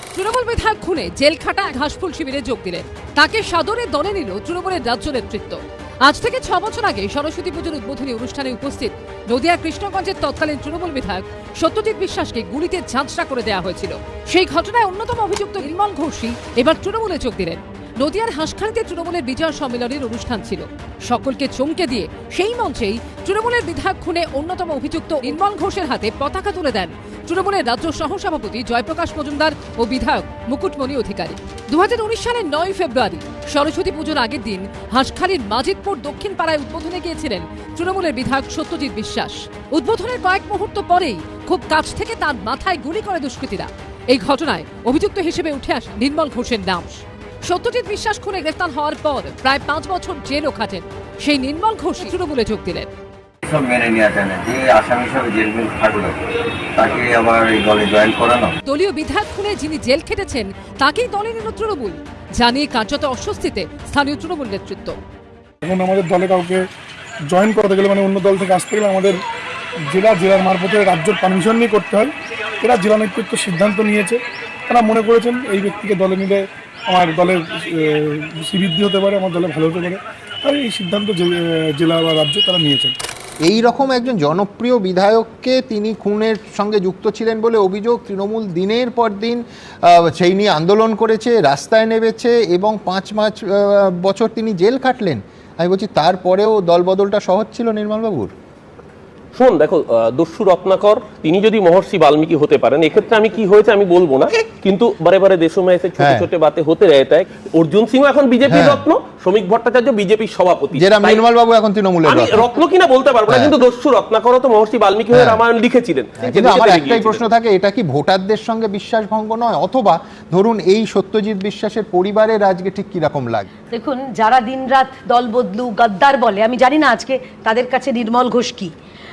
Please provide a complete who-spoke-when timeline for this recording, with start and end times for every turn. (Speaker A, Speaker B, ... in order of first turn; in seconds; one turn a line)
Speaker A: 0.1-52.9
Speaker B: 53.4-56.2
Speaker B: 56.7-58.5
Speaker A: 58.6-65.0
Speaker C: 65.6-66.6
Speaker C: 67.3-69.2
Speaker C: 69.8-83.0
Speaker D: 83.4-98.3
Speaker E: 99.3-111.2
Speaker D: 106.0-106.3
Speaker D: 108.4-108.8
Speaker D: 110.7-112.5
Speaker E: 112.0-117.2
Speaker D: 113.3-113.5
Speaker D: 115.1-115.4
Speaker D: 116.2-123.5
Speaker F: 123.7-128.7